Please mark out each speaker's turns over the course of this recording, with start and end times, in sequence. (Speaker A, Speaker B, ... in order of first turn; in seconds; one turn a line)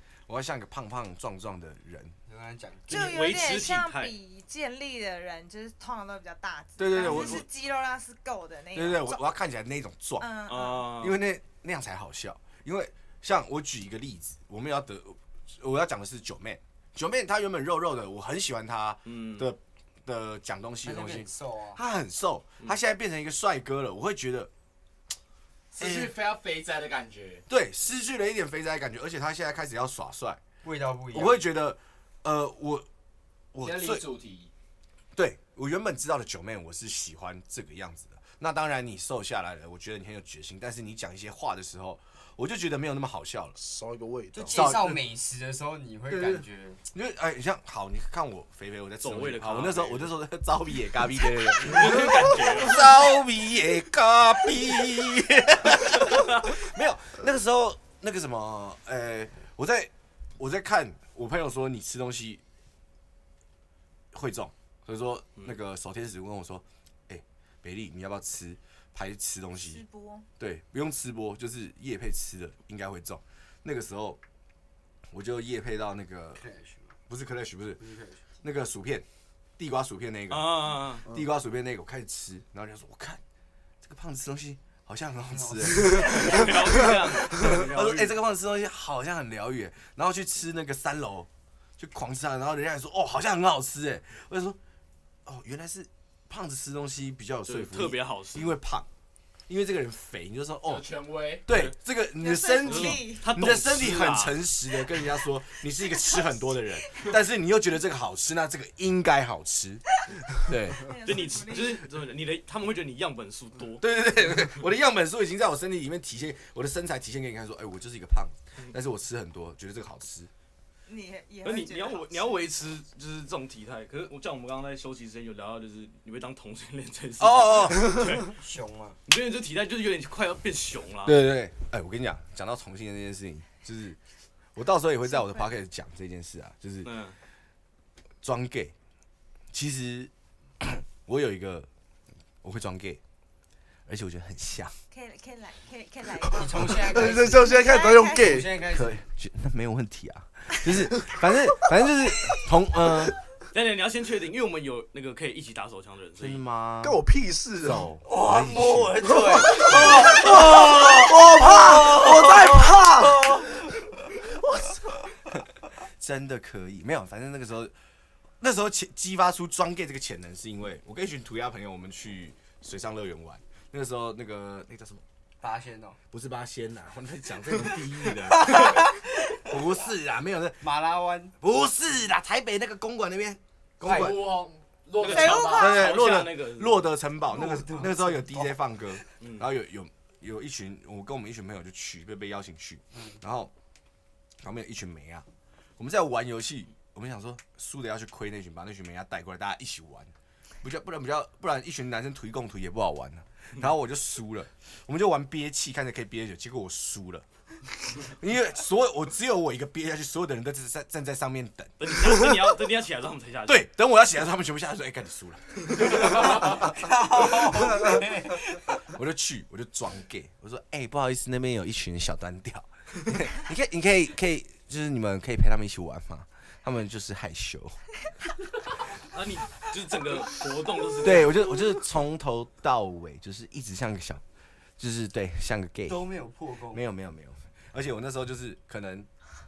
Speaker A: 0.3-2.2
Speaker B: 2.3-3.2
Speaker C: 2.9-4.1
Speaker D: 2.9-9.2
Speaker A: 6.8-7.5
Speaker C: 7.0-7.4
Speaker A: 8.7-10.3
Speaker D: 10.2-10.9
Speaker C: 10.5-11.2
Speaker A: 11.0-24.5
Speaker C: 19.1-19.5
Speaker B: 20.8-21.8
Speaker E: 25.7-27.4
Speaker A: 25.8-26.1
Speaker A: 27.5-30.4
Speaker B: 30.6-31.4
Speaker A: 31.1-32.9
Speaker A: 33.5-34.1
Speaker E: 33.6-34.5
Speaker A: 35.1-43.6
Speaker F: 43.6-44.6
Speaker B: 44.3-46.8
Speaker A: 44.5-45.0
Speaker A: 46.1-62.4
Speaker C: 49.0-50.1
Speaker C: 51.6-52.9
Speaker A: 64.1-69.8
Speaker D: 69.7-70.3
Speaker A: 70.4-74.2
Speaker A: 75.1-76.4
Speaker B: 76.4-76.9
Speaker A: 77.1-77.8
Speaker B: 77.8-78.2
Speaker A: 78.4-79.1
Speaker A: 79.6-83.2
Speaker C: 80.3-81.0
Speaker A: 83.8-94.6
Speaker B: 85.3-86.5
Speaker C: 85.8-88.1
Speaker A: 95.3-98.9
Speaker C: 97.5-98.5
Speaker A: 99.5-100.9
Speaker E: 100.7-101.7
Speaker A: 101.5-111.0
Speaker D: 102.2-103.3
Speaker C: 102.6-104.5
Speaker D: 105.9-106.3
Speaker D: 110.7-111.8
Speaker C: 111.0-114.0
Speaker A: 113.8-120.3
Speaker D: 120.9-122.4
Speaker C: 121.4-128.4
Speaker A: 127.2-128.2
Speaker B: 128.2-129.0
Speaker C: 129.1-131.2
Speaker A: 131.0-134.0
Speaker A: 134.6-136.9
Speaker C: 136.8-137.2
Speaker A: 138.2-138.8
Speaker A: 139.5-141.7
Speaker A: 142.4-143.0
Speaker A: 143.9-144.8
Speaker D: 144.9-146.7
Speaker B: 146.3-147.6
Speaker F: 146.8-148.6
Speaker D: 147.3-148.4
Speaker B: 148.1-149.0
Speaker A: 148.7-153.2
Speaker C: 153.5-156.4
Speaker A: 156.2-157.0
Speaker F: 156.8-157.9
Speaker A: 157.6-163.4
Speaker B: 158.1-163.7
Speaker F: 159.1-163.4
Speaker A: 164.1-167.7
Speaker A: 168.4-175.0
Speaker B: 175.4-176.0
Speaker A: 176.1-180.7
Speaker B: 178.3-179.1
Speaker B: 180.6-181.3
Speaker A: 181.4-184.3
Speaker E: 183.8-185.7
Speaker B: 183.8-184.1
Speaker C: 185.0-187.0
Speaker D: 185.1-185.9
Speaker A: 185.6-193.5
Speaker B: 187.3-188.6
Speaker C: 189.2-189.5
Speaker B: 192.9-193.2
Speaker A: 194.4-195.3
Speaker A: 195.8-207.3
Speaker A: 207.8-212.5
Speaker C: 211.8-213.7
Speaker A: 213.5-227.9
Speaker C: 215.8-216.1
Speaker B: 216.7-218.6
Speaker C: 229.0-231.4
Speaker A: 231.0-234.2
Speaker A: 234.8-236.0
Speaker B: 235.9-236.8
Speaker A: 236.7-239.1